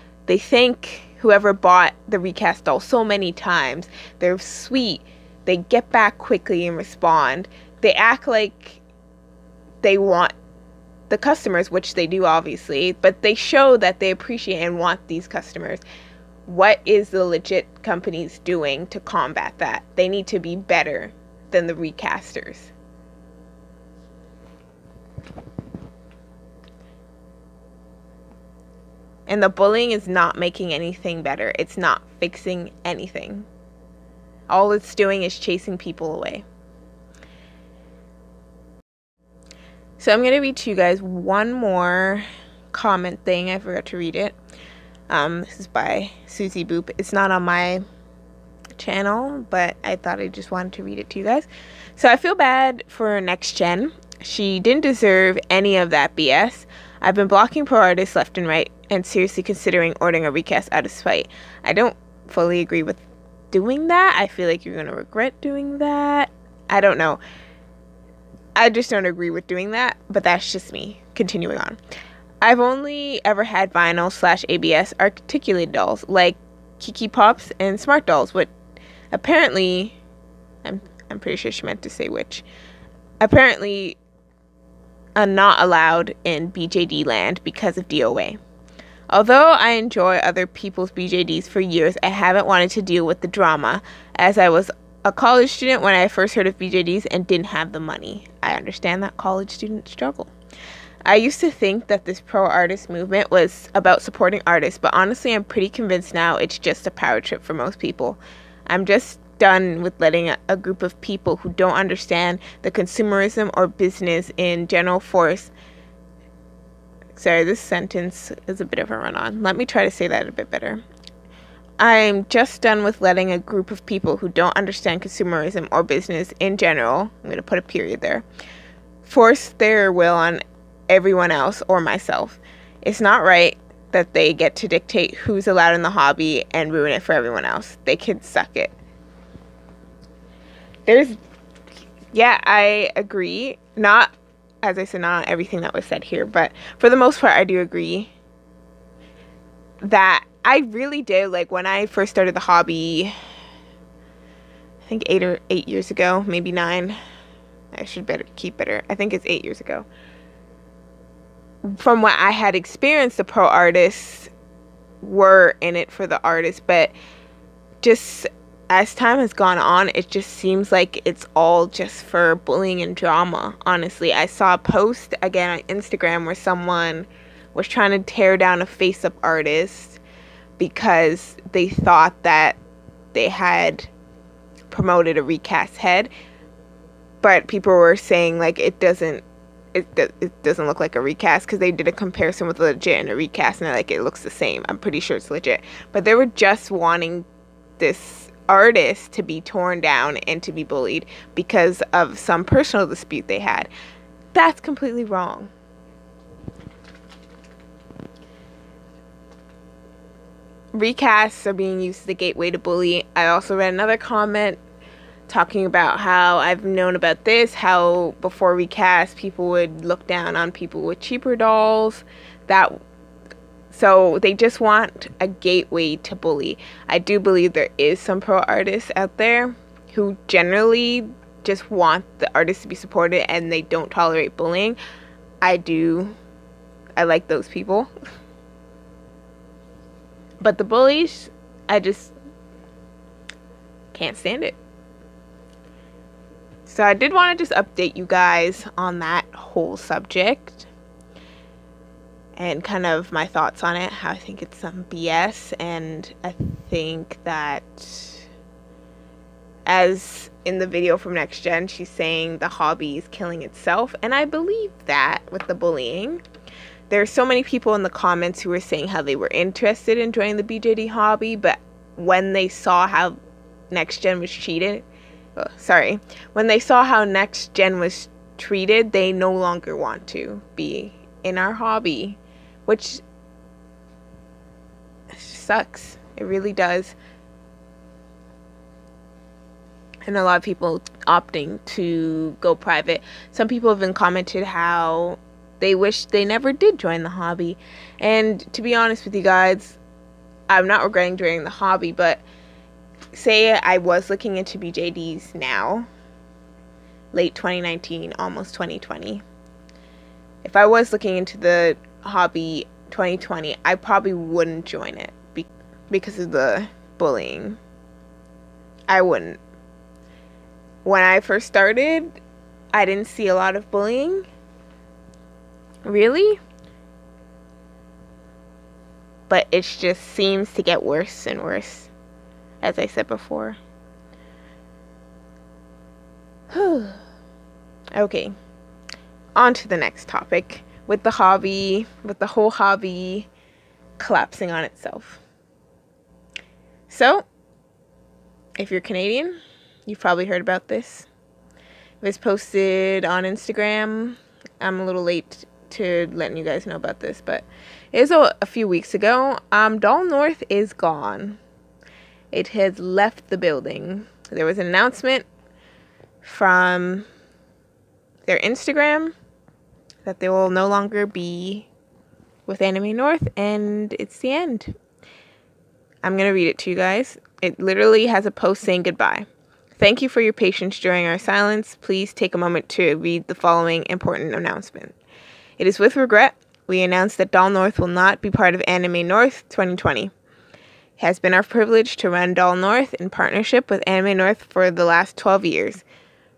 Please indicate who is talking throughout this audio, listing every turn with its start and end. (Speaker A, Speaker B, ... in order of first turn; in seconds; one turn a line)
Speaker A: 0.3-8.8
Speaker A: 9.8-10.3
Speaker A: 11.1-15.8
Speaker A: 16.4-22.7
Speaker A: 29.3-33.5
Speaker A: 34.5-36.4
Speaker A: 40.0-44.4
Speaker A: 45.1-47.8
Speaker A: 48.8-67.2
Speaker A: 68.5-71.8
Speaker A: 72.4-78.5
Speaker A: 79.1-80.0
Speaker A: 80.6-82.4
Speaker A: 83.2-84.0
Speaker A: 85.2-88.4
Speaker A: 89.1-100.3
Speaker A: 101.0-115.5
Speaker A: 117.1-120.8
Speaker A: 121.8-128.2
Speaker A: 129.0-138.7
Speaker A: 140.9-141.2
Speaker A: 142.1-144.1
Speaker A: 144.6-148.1
Speaker A: 149.8-153.1
Speaker A: 154.9-156.9
Speaker A: 157.7-159.9
Speaker A: 161.6-164.3
Speaker A: 165.0-166.9
Speaker A: 167.8-180.0
Speaker A: 180.6-182.6
Speaker A: 183.1-183.9
Speaker A: 184.7-186.1
Speaker A: 187.2-197.3
Speaker A: 197.8-203.7
Speaker A: 204.3-205.5
Speaker A: 210.7-214.6
Speaker A: 215.3-222.8
Speaker A: 223.7-234.8
Speaker A: 235.4-236.1
Speaker A: 237.0-237.9
Speaker A: 240.4-242.1
Speaker A: 243.9-244.6
Speaker A: 246.7-250.7
Speaker A: 252.3-258.2
Speaker A: 259.6-266.2
Speaker A: 266.9-273.2
Speaker A: 273.7-274.8
Speaker A: 275.4-283.0
Speaker A: 285.1-286.9
Speaker A: 290.1-299.8
Speaker A: 300.5-302.2
Speaker A: 303.1-305.9
Speaker A: 307.1-309.2
Speaker A: 310.4-317.6
Speaker A: 318.9-319.4
Speaker A: 320.8-322.2
Speaker A: 322.7-324.3
Speaker A: 325.8-326.4
Speaker A: 329.3-331.9
Speaker A: 332.6-333.6
Speaker A: 336.5-337.0
Speaker A: 337.9-338.3
Speaker A: 339.4-343.3
Speaker A: 344.0-345.2
Speaker A: 346.9-347.2
Speaker A: 348.6-349.3
Speaker A: 349.9-351.1
Speaker A: 352.0-361.4
Speaker A: 362.3-365.3
Speaker A: 366.2-367.1
Speaker A: 368.2-369.1
Speaker A: 370.0-371.7
Speaker A: 372.5-374.8
Speaker A: 376.0-379.2
Speaker A: 379.8-384.9
Speaker A: 385.6-390.1
Speaker A: 391.0-395.8